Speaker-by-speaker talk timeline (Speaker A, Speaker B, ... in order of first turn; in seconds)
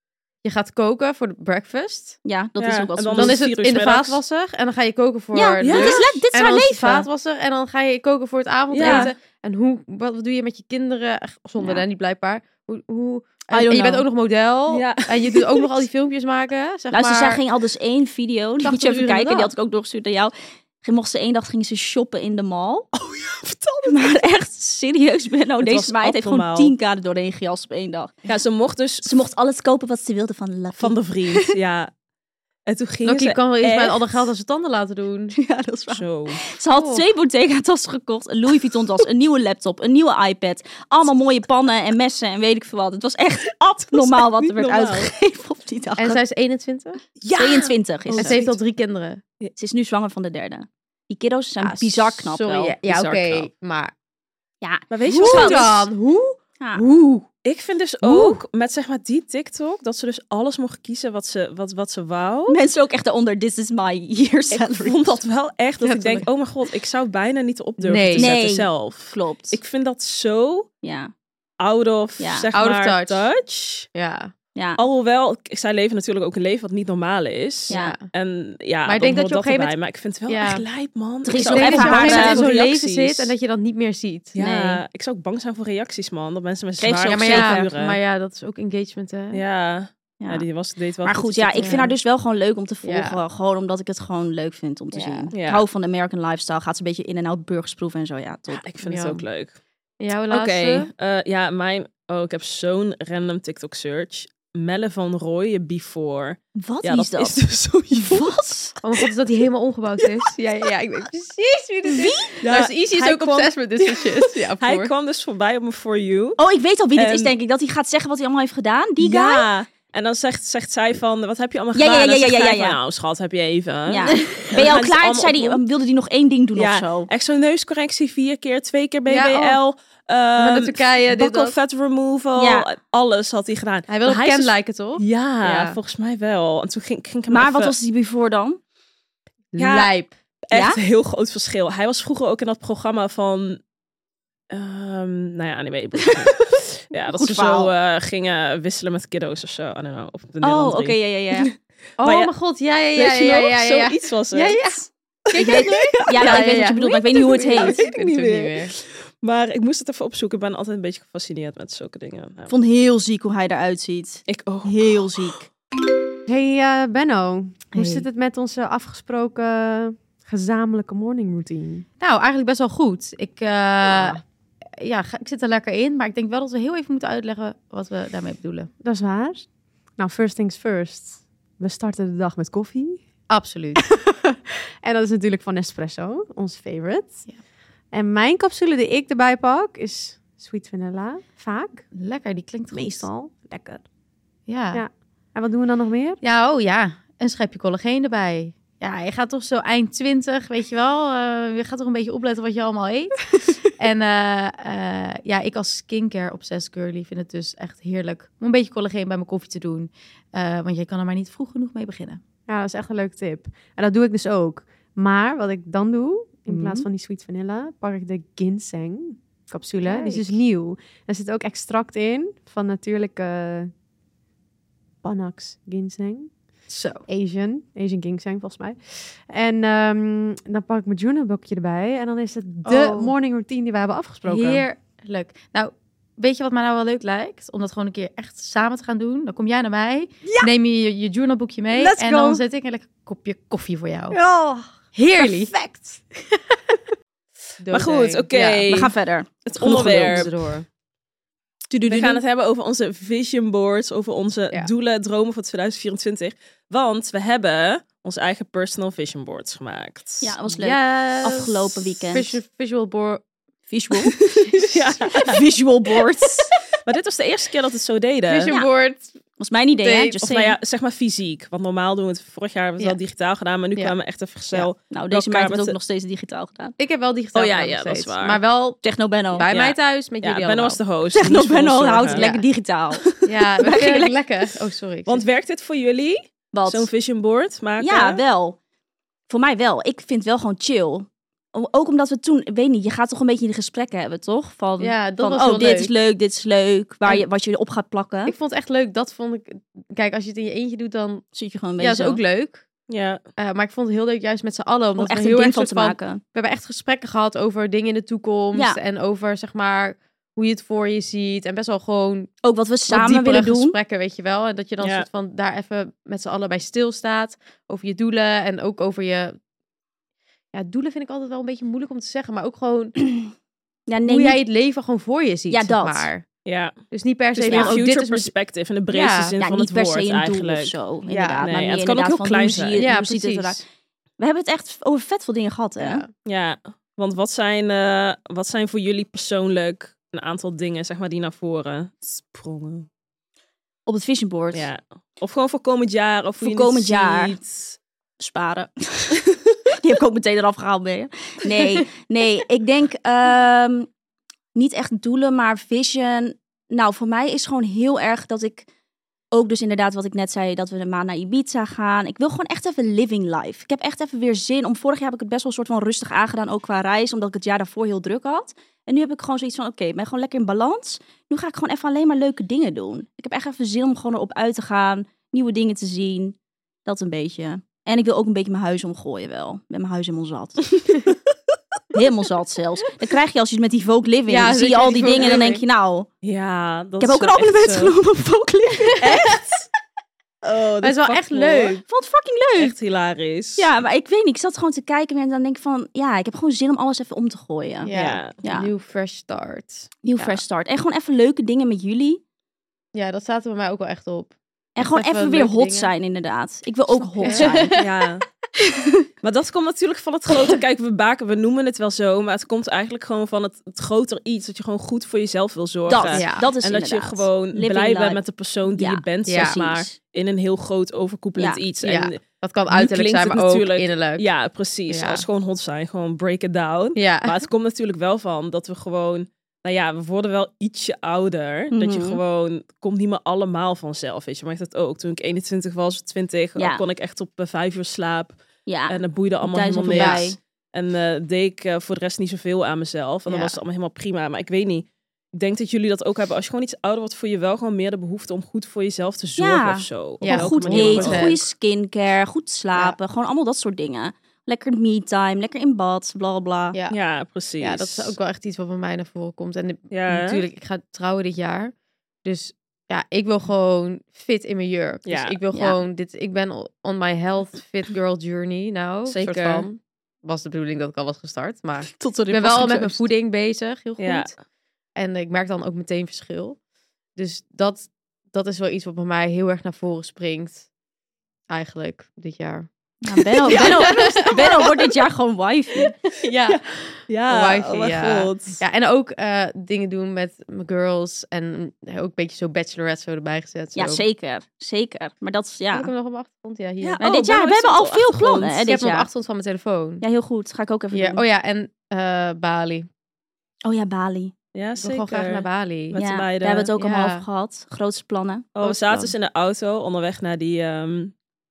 Speaker A: 0.4-2.2, 3.1-17.4, 18.6-19.5, 33.0-35.4, 36.7-37.0, 46.0-47.0, 48.1-49.2, 51.6-53.9, 55.1-57.3, 58.0-58.4, 65.8-66.3, 67.8-68.3, 72.5-73.2, 73.9-74.3, 77.7-78.0, 78.8-79.7, 80.3-80.6, 81.3-84.8, 87.1-89.4, 91.6-91.9, 92.8-93.2, 94.9-95.3, 98.8-99.2, 100.0-100.9, 108.8-114.9, 129.1-129.6, 130.4-131.6, 133.9-135.8, 139.5-140.1, 152.0-158.7, 167.7-168.1, 172.0-174.2, 174.7-178.7, 183.3-183.8, 191.9-193.1, 194.5-194.8, 196.2-212.2, 216.5-216.9, 219.8-220.4, 226.7-227.0, 232.6-233.1, 234.2-244.2, 244.9-245.9, 247.6-248.9, 249.5-250.7, 260.5-263.2, 268.2-269.2, 269.8-270.2, 276.8-280.8, 282.1-282.4, 283.2-285.2, 294.8-295.9, 298.2-301.2, 301.8-302.6, 303.4-312.3, 312.9-319.4, 320.5-323.0, 324.0-326.2, 326.9-328.3, 328.9-329.4, 331.1-331.5, 332.8-333.6, 335.8-336.1, 384.3-385.6, 390.8-391.8, 397.8-400.4, 402.9-405.9, 407.2-407.9, 416.1-416.5, 419.2-419.6, 421.8-424.2, 424.9-425.2, 426.9-427.4, 439.9-440.2, 443.3-443.6, 450.2-451.4, 457.6-461.7, 462.2-474.3, 474.9-476.6, 477.1-480.7, 481.5-482.7, 483.4-484.4, 486.1-494.0, 495.7-497.0, 498.6-500.0, 500.9-502.9, 504.8-506.0, 506.8-507.2, 508.6-509.1
Speaker B: 2.2-3.4, 5.3-7.1, 8.8-9.1, 11.6-11.8, 13.5-14.0, 16.9-22.9, 23.9-28.1, 29.0-31.5, 35.3-46.2, 47.4-48.4, 49.6-53.5, 54.6-55.6, 62.5-65.2, 68.2-69.6, 70.8-71.1, 72.2-72.5, 77.7-78.0, 81.2-82.4, 86.8-87.7, 90.2-90.4, 91.0-98.7, 106.5-107.4, 107.9-108.7, 111.9-112.3, 116.4-119.5, 121.7-122.8, 123.9-127.1, 132.3-132.7, 137.3-138.6, 140.5-140.8, 147.1-147.7, 150.4-151.5, 155.3-157.8, 162.5-165.5, 241.7-242.4, 244.1-244.7, 245.2-245.8, 248.7-250.3, 251.7-252.2, 260.2-262.4, 263.7-264.2, 265.1-266.5, 269.4-270.6, 274.9-276.7, 278.8-279.5, 281.1-283.1, 283.6-284.2, 286.5-286.9, 287.8-288.6, 289.3-298.3, 301.3-302.2, 305.0-306.2, 308.5-308.8, 312.4-313.8, 323.9-324.4, 325.5-326.1, 327.5-327.8, 329.4-333.6, 334.2-336.0, 343.9-344.7, 346.4-347.4, 348.2-349.2, 349.8-353.9, 354.5-358.6, 359.3-380.6, 381.9-386.1, 387.0-389.2, 391.8-392.7, 393.6-398.7, 400.0-402.2, 404.8-407.8, 415.9-418.2, 418.8-419.9, 431.7-432.2, 436.6-436.8, 438.6-440.4, 449.4-456.8, 471.9-473.0, 483.0-485.9, 493.7-495.9, 497.0-499.1, 500.0-501.2, 503.6-504.3, 505.9-508.5
Speaker C: 2.6-4.2, 5.6-6.2, 8.7-9.1, 14.7-15.7, 22.9-24.2, 25.6-26.7, 28.2-29.2, 30.8-31.9, 32.7-34.2, 35.9-36.4, 43.9-45.1, 47.2-48.5, 54.9-55.9, 57.4-62.6, 64.5-70.7, 71.6-73.9, 74.8-83.3, 84.3-88.0, 89.3-91.9, 95.3-95.6, 98.5-99.5, 100.3-108.4, 112.4-116.4, 116.9-117.3, 119.0-125.6, 126.5-137.7, 139.6-139.9, 140.5-143.6, 144.5-152.3, 152.9-154.7, 155.2-162.5, 164.3-165.3, 247.7-248.9, 249.4-250.3, 251.8-260.3, 264.2-265.4, 266.8-268.5, 270.2-275.8, 277.3-278.4, 279.5-282.2, 285.1-288.2, 302.9-303.2, 314.8-315.1, 326.4-326.8, 327.3-330.7, 331.4-332.8, 336.2-342.9, 344.5-347.8, 386.2-387.9, 389.0-389.6, 390.4-391.8, 392.6-393.7, 397.9-398.4, 407.2-408.2, 409.2-451.3, 456.9-458.1, 459.9-460.4, 465.1-465.4, 469.1-469.6, 474.0-474.3, 483.6-484.6, 486.5-488.6, 496.8-498.6, 504.5-506.7, 508.5-511.1
Speaker D: 166.2-171.8, 178.8-183.0, 183.8-187.2, 187.9-191.8, 192.7-193.8, 194.7-196.2, 212.5-223.7, 225.0-226.3, 227.1-234.6